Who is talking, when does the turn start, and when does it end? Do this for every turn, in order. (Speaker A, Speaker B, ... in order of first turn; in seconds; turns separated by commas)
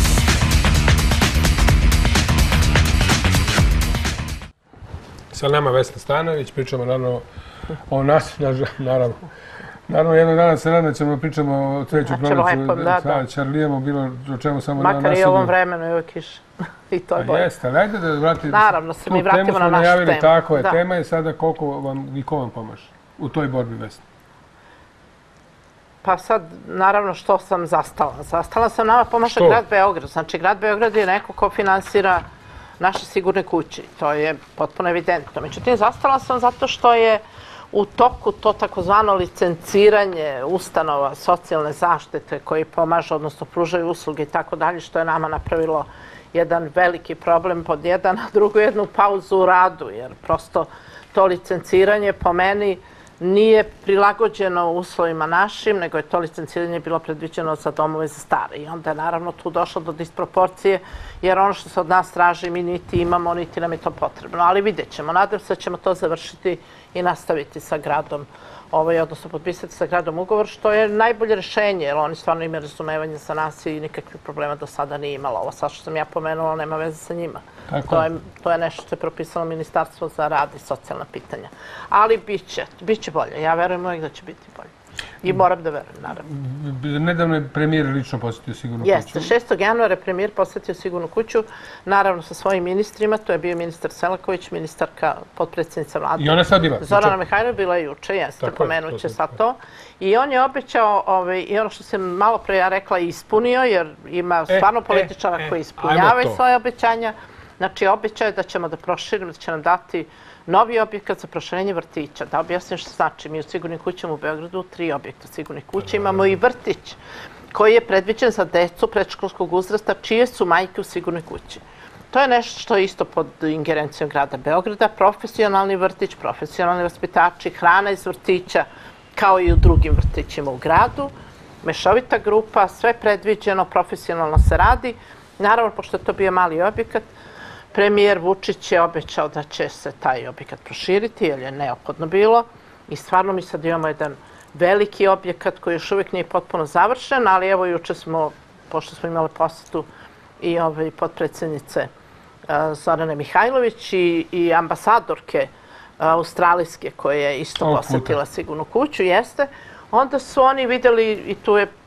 Speaker A: 5.3-7.2, Speaker A: 7.9-9.3, Speaker A: 9.9-15.5, Speaker B: 12.0-13.2, Speaker B: 14.8-17.5, Speaker A: 17.2-24.0, Speaker B: 18.5-20.8, Speaker B: 26.0-32.2, Speaker A: 29.4-29.6, Speaker B: 32.8-84.7, Speaker A: 77.7-78.1, Speaker B: 85.2-86.2, Speaker A: 86.2-89.3, Speaker B: 88.8-117.0, Speaker A: 96.2-97.2, Speaker A: 98.4-99.3, Speaker A: 104.5-106.4, Speaker A: 115.8-116.4, Speaker B: 117.5-137.1, Speaker B: 137.7-149.9, Speaker B: 150.4-151.9, Speaker B: 152.5-161.7, Speaker A: 157.6-158.2